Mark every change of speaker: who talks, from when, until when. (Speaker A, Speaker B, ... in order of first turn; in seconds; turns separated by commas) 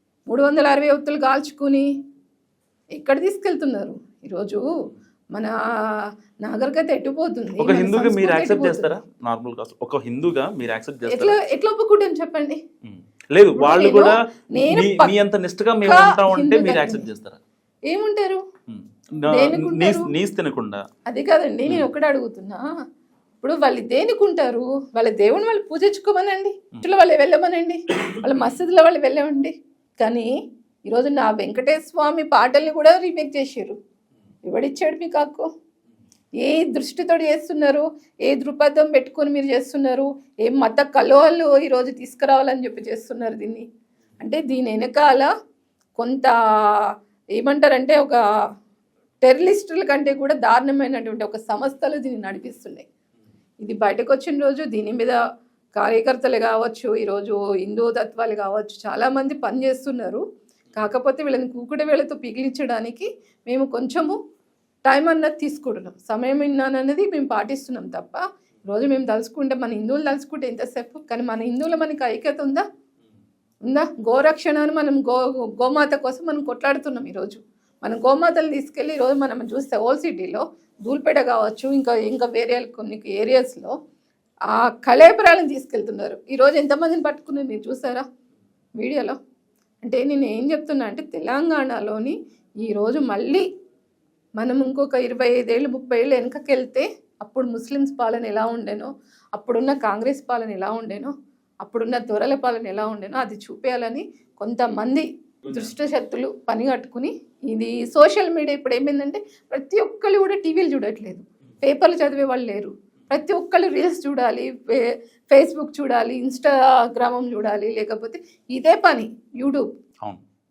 Speaker A: 0.3-1.9, Speaker A: 3.0-4.6, Speaker A: 5.3-8.9, Speaker B: 7.6-11.3, Speaker A: 11.1-12.6, Speaker B: 12.8-17.4, Speaker A: 13.6-15.1, Speaker A: 15.8-17.1, Speaker A: 17.9-18.4, Speaker B: 18.7-20.8, Speaker A: 19.3-20.1, Speaker A: 21.1-22.6, Speaker A: 23.4-30.3, Speaker A: 30.9-33.8, Speaker A: 34.5-35.5, Speaker A: 36.4-43.6, Speaker A: 44.2-45.3, Speaker A: 46.0-46.3, Speaker A: 47.4-48.2, Speaker A: 49.2-52.8, Speaker A: 53.6-55.1, Speaker A: 55.8-60.2, Speaker A: 60.7-64.1, Speaker A: 64.8-72.6, Speaker A: 73.6-83.7, Speaker A: 84.5-88.0, Speaker A: 88.8-89.2, Speaker A: 89.8-93.4, Speaker A: 94.4-119.7